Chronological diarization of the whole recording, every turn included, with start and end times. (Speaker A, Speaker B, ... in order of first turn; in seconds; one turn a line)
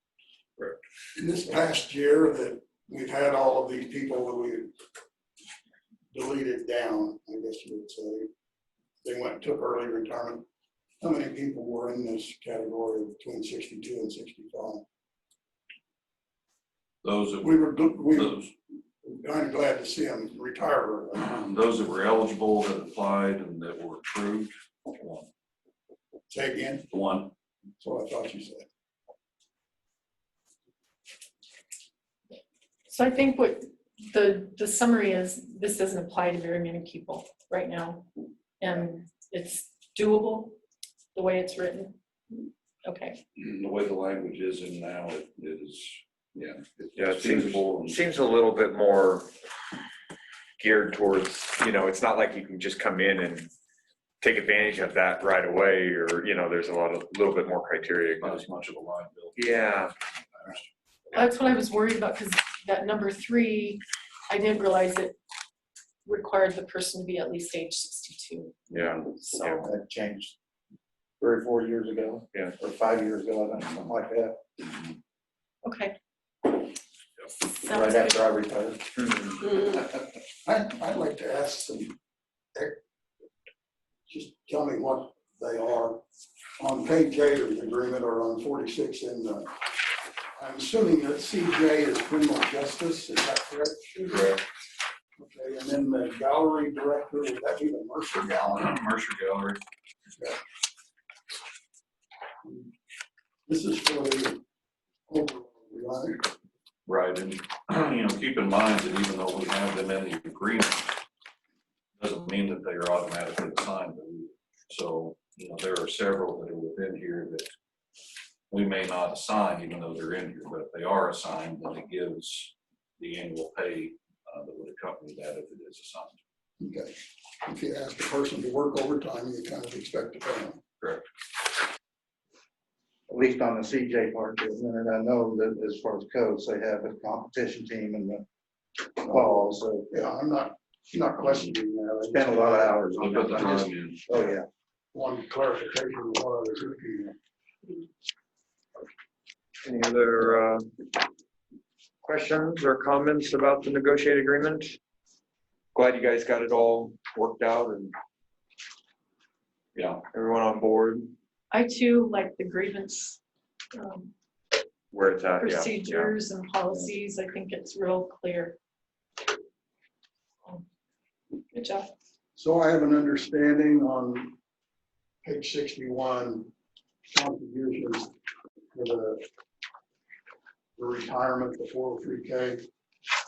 Speaker A: 1.2-4.7
Speaker A: 6.1-8.3
Speaker A: 9.0-10.4
Speaker A: 11.0-14.8
Speaker B: 17.0-18.5
Speaker A: 17.4-21.3
Speaker B: 21.2-25.3
Speaker A: 26.3-26.9
Speaker B: 26.9-27.3
Speaker A: 27.8-28.7
Speaker C: 32.9-38.1
Speaker C: 38.6-40.6
Speaker C: 41.1-43.2
Speaker B: 43.4-48.0
Speaker D: 47.0-49.3
Speaker D: 50.6-53.5
Speaker D: 54.2-58.5
Speaker B: 58.2-61.2
Speaker D: 59.4-59.9
Speaker C: 61.1-65.2
Speaker C: 66.0-68.6
Speaker B: 68.7-69.0
Speaker D: 68.7-69.7
Speaker C: 69.2-69.7
Speaker E: 69.6-70.3
Speaker E: 71.2-74.4
Speaker C: 75.6-76.0
Speaker C: 77.5-78.2
Speaker E: 77.7-78.9
Speaker D: 79.0-79.3
Speaker A: 79.4-82.0
Speaker A: 84.1-86.0
Speaker A: 86.6-89.5
Speaker A: 90.4-94.4
Speaker B: 94.1-94.4
Speaker A: 95.2-98.7
Speaker B: 98.2-99.6
Speaker A: 103.5-104.4
Speaker A: 105.1-106.2
Speaker B: 106.9-110.9
Speaker B: 112.0-117.5
Speaker B: 118.5-126.2
Speaker A: 126.6-130.6
Speaker E: 133.1-138.2
Speaker E: 139.1-139.9
Speaker A: 139.1-143.5
Speaker E: 142.1-144.5
Speaker B: 142.9-144.1
Speaker A: 144.9-147.2
Speaker D: 149.6-150.7
Speaker D: 152.0-154.8
Speaker D: 155.7-157.9
Speaker B: 159.8-160.0
Speaker D: 160.1-161.1
Speaker C: 161.5-163.2
Speaker C: 163.7-164.1
Speaker D: 164.9-166.1
Speaker C: 165.4-168.6
Speaker C: 171.5-171.9
Speaker A: 172.4-174.4
Speaker A: 175.2-176.5
Speaker A: 177.1-178.1
Speaker A: 178.7-179.2
Speaker A: 180.8-182.6